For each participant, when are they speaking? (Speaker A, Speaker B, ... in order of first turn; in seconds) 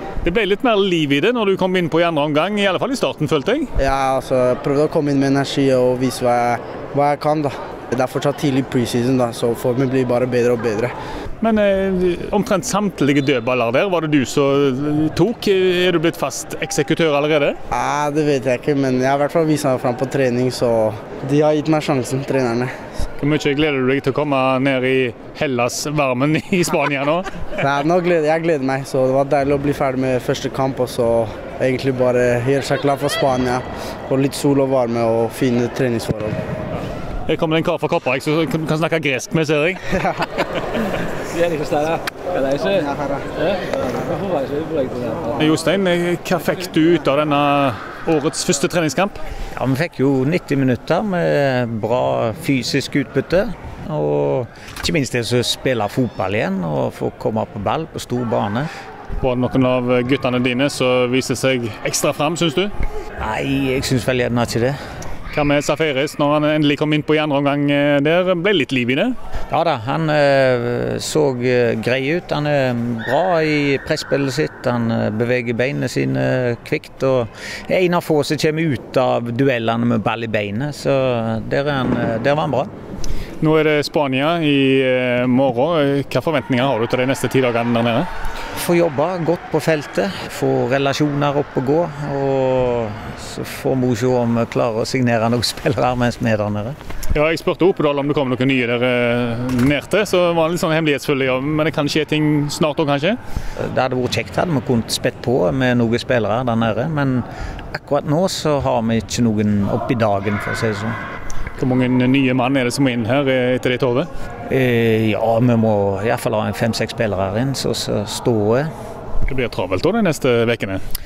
Speaker A: 0.2-3.7, 11.4-17.6, 23.2-27.3, 37.3-39.8, 45.4-49.2, 59.2-62.7, 65.3-69.2, 83.4-88.1, 97.1-103.2, 111.6-114.1, 119.3-120.8
Speaker B: 3.8-10.9, 17.7-22.7, 27.6-36.4, 39.9-40.2, 42.8-43.2
Speaker C: 49.5-58.7, 63.2-64.8, 69.5-82.7, 88.5-96.8, 103.6-111.0, 114.5-118.7